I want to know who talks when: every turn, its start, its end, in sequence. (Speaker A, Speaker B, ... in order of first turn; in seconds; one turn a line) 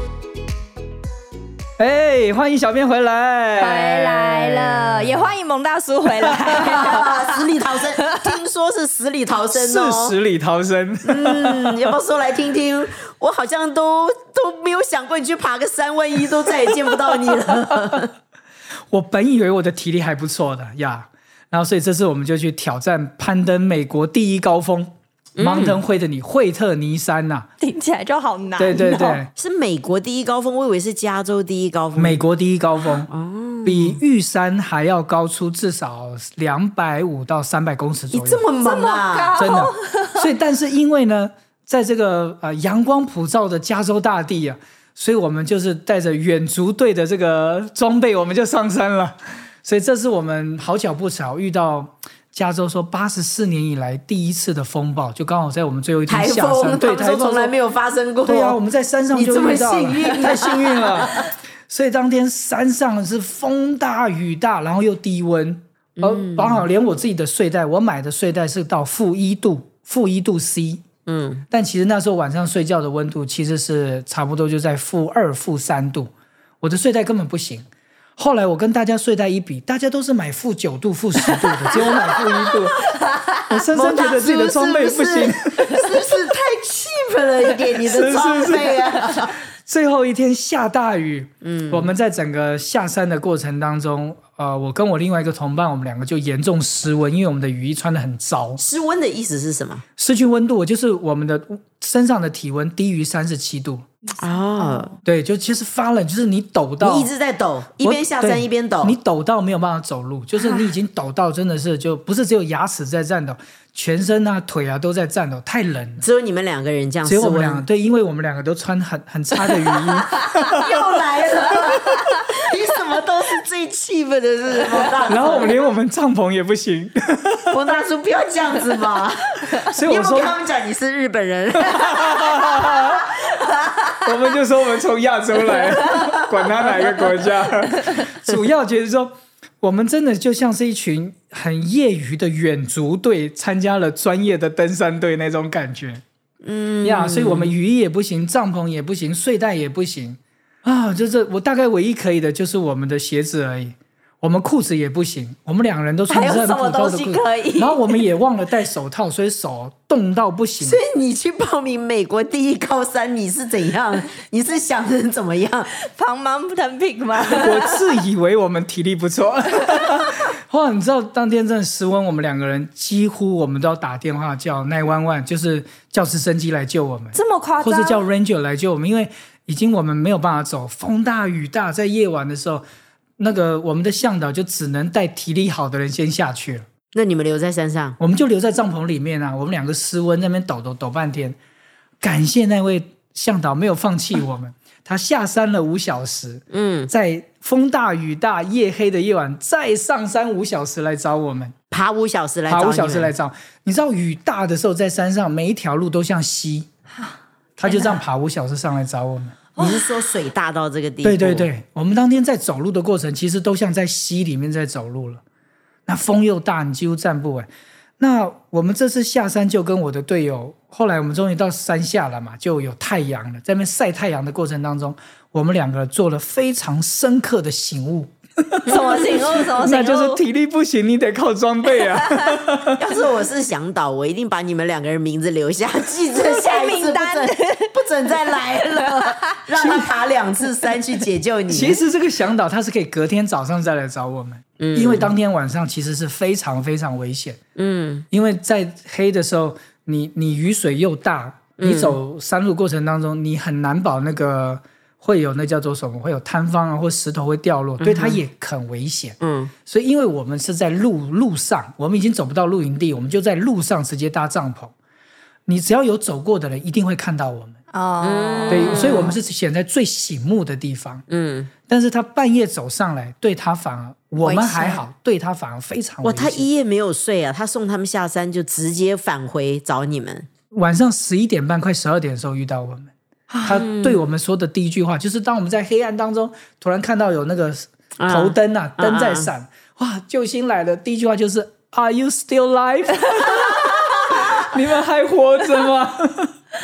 Speaker A: 1.8-5.3
Speaker B: 3.6-7.4
Speaker A: 6.2-6.6
Speaker C: 6.5-10.2
Speaker B: 8.0-8.3
Speaker A: 9.5-11.8
Speaker C: 11.1-18.1
Speaker A: 18.9-27.5
Speaker C: 25.4-25.8
Speaker B: 27.6-29.2
Speaker A: 28.6-29.3
Speaker C: 28.8-32.2
Speaker A: 31.9-33.1
Speaker C: 33.1-34.0
Speaker A: 33.6-38.5
Speaker C: 38.1-39.5
Speaker B: 38.6-40.3
Speaker A: 39.4-57.5
Speaker C: 56.1-58.6
Speaker A: 58.3-70.8
Speaker C: 59.1-61.2
Speaker C: 66.0-66.7
Speaker C: 71.1-71.5
Speaker A: 71.5-76.1
Speaker A: 76.6-77.7
Speaker A: 78.2-82.8
Speaker C: 81.7-82.5
Speaker A: 83.5-85.9
Speaker C: 83.5-89.4
Speaker A: 87.8-98.6
Speaker C: 91.4-91.9
Speaker C: 98.6-99.8
Speaker A: 100.0-103.8
Speaker C: 104.2-104.9
Speaker A: 105.0-107.1
Speaker C: 106.8-109.0
Speaker A: 107.8-116.0
Speaker C: 116.0-117.6
Speaker A: 117.0-120.8
Speaker C: 120.5-125.5
Speaker A: 125.1-127.6
Speaker C: 127.5-133.9
Speaker A: 129.6-130.4
Speaker A: 131.7-133.1
Speaker A: 134.1-146.0
Speaker C: 135.5-136.0
Speaker C: 136.7-137.1
Speaker C: 146.4-147.5
Speaker A: 146.8-160.8
Speaker B: 156.1-158.0
Speaker C: 160.6-165.7
Speaker B: 165.8-167.9
Speaker A: 167.3-182.6
Speaker B: 177.1-178.0
Speaker A: 183.2-186.7
Speaker C: 186.9-188.0
Speaker A: 188.0-191.4
Speaker A: 192.0-201.5
Speaker C: 196.5-196.9
Speaker C: 201.7-203.2
Speaker A: 202.5-206.7
Speaker A: 207.6-209.4
Speaker B: 207.7-208.0
Speaker B: 209.6-209.8
Speaker C: 209.6-211.5
Speaker A: 211.0-215.2
Speaker A: 215.9-228.7
Speaker C: 228.7-229.5
Speaker B: 228.7-230.2
Speaker A: 229.6-232.8
Speaker B: 232.0-232.4
Speaker C: 232.8-241.8
Speaker B: 236.2-237.7
Speaker B: 238.6-239.8
Speaker A: 241.5-247.4
Speaker C: 244.6-245.1
Speaker C: 247.6-248.1
Speaker A: 248.1-259.2
Speaker C: 251.6-252.0
Speaker C: 257.8-258.2
Speaker C: 259.2-259.5
Speaker A: 259.7-264.7
Speaker A: 265.5-267.6
Speaker B: 267.7-269.1
Speaker C: 268.0-269.1
Speaker A: 268.5-271.0
Speaker C: 271.1-271.5
Speaker A: 271.7-276.5
Speaker B: 274.2-274.8
Speaker C: 276.0-280.3
Speaker A: 280.5-296.3
Speaker C: 283.5-284.1
Speaker C: 288.0-289.3
Speaker C: 294.0-294.3